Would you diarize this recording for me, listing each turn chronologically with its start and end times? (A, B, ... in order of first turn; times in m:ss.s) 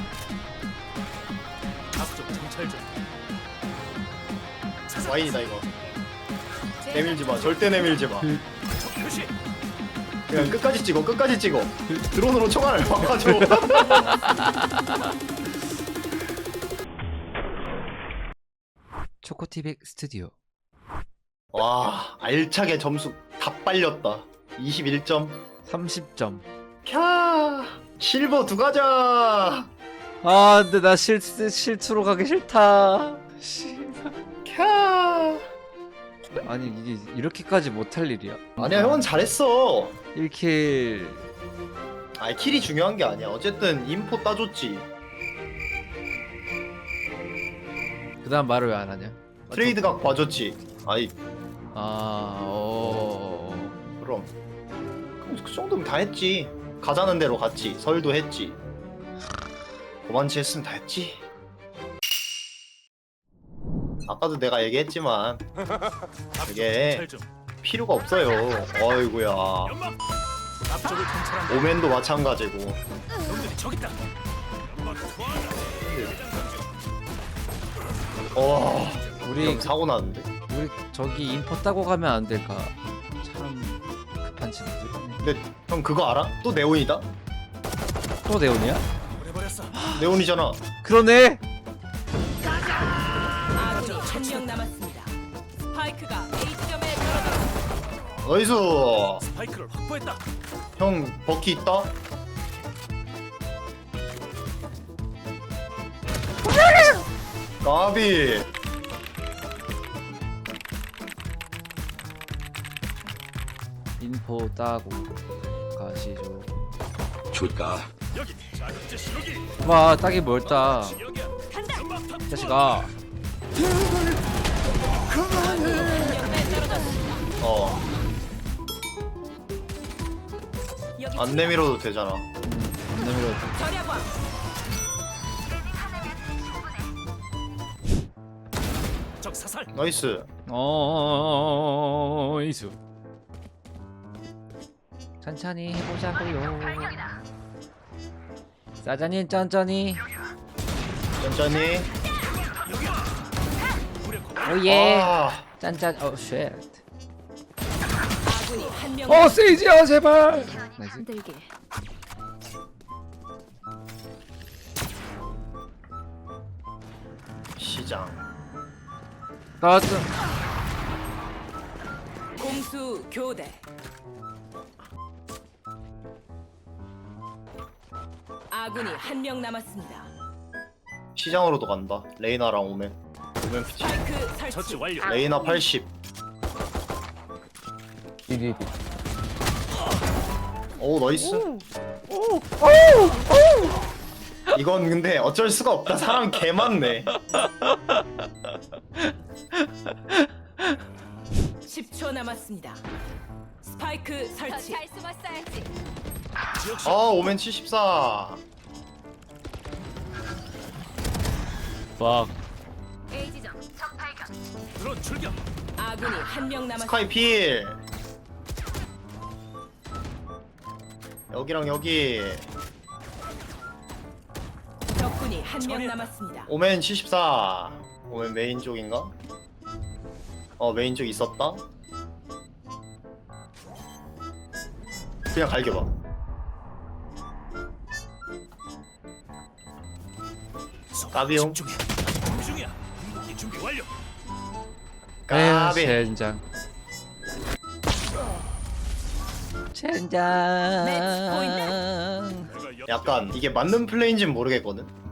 0:01.9-0:02.8 A
0:05.0-0:05.7 B
0:06.8-0:07.2 C
0:06.9-0:08.4 B
0:08.8-0:09.3 A
0:10.3-0:14.2 B
0:14.0-0:15.0 D
0:19.2-0:20.3 D
0:21.5-0:25.4 B
0:25.6-0:26.5 D
0:26.8-0:29.7 B
0:30.2-0:34.1 D
0:34.4-0:35.4 B
0:36.4-0:39.1 D
0:38.6-0:40.0 B
0:40.1-0:41.2 D
0:42.2-0:44.9 B
0:48.2-0:49.9 D
0:49.5-0:51.1 B
0:51.7-0:53.8 D
0:54.0-0:54.3 B
0:55.2-0:58.6 B
1:00.0-1:01.2 B
1:04.1-1:05.4 B
1:06.4-1:07.2 A
1:06.4-1:07.1 B
1:07.6-1:09.8 B
1:10.7-1:11.5 A
1:11.5-1:12.8 B
1:13.2-1:14.0 A
1:14.6-1:16.5 A
1:18.3-1:20.3 B
1:19.2-1:19.7 D
1:20.5-1:25.2 D
1:25.2-1:27.0 B
1:28.2-1:28.8 D
1:29.7-1:30.1 D
1:29.9-1:30.6 B
1:30.8-1:31.4 D
1:33.5-1:35.1 C
1:35.7-1:37.5 C
1:38.2-1:39.2 B
1:39.3-1:40.2 A
1:40.8-1:41.9 B
1:47.6-1:48.5 B
1:54.0-1:55.2 D
1:55.7-1:56.5 D
1:58.2-1:59.4 A
1:59.6-2:01.0 D
2:01.0-2:02.2 A
2:01.5-2:01.8 C
2:02.3-2:02.9 D
2:05.2-2:07.3 C
2:07.4-2:07.8 B
2:11.0-2:11.7 C
2:11.2-2:12.3 B
2:12.4-2:13.7 D
2:13.6-2:14.1 C
2:19.2-2:19.7 A
2:19.7-2:20.3 B
2:20.5-2:22.8 D
2:25.2-2:27.1 D
2:28.8-2:30.0 D
2:31.2-2:31.9 B
2:34.0-2:34.4 A
2:34.4-2:36.8 D
2:34.7-2:35.5 B
2:38.2-2:39.4 C
2:39.1-2:41.1 D
2:41.0-2:41.5 C
2:47.6-2:48.2 B
2:49.6-2:50.1 D
2:52.4-2:53.6 C
2:58.5-3:00.1 C
3:01.2-3:04.1 B
3:03.8-3:05.0 C
3:04.6-3:05.1 A
3:05.0-3:05.9 B
3:10.8-3:11.5 B
3:11.2-3:13.6 D
3:14.5-3:17.2 B
3:17.3-3:18.0 D
3:21.7-3:22.8 C
3:23.6-3:25.0 C
3:24.7-3:25.6 A
3:26.6-3:26.9 A
3:26.8-3:28.4 B
3:32.0-3:32.3 D
3:34.8-3:35.4 A
3:35.8-3:36.9 C
3:36.8-3:37.8 B
3:41.3-3:42.5 B
3:44.9-3:46.5 C
3:46.5-3:49.1 B
3:50.6-3:51.6 B
3:55.3-3:55.9 B
4:01.0-4:03.9 A
4:01.1-4:01.6 B
4:05.3-4:06.1 B
4:05.3-4:06.4 D
4:09.7-4:12.5 D
4:10.8-4:11.8 C
4:12.9-4:14.9 B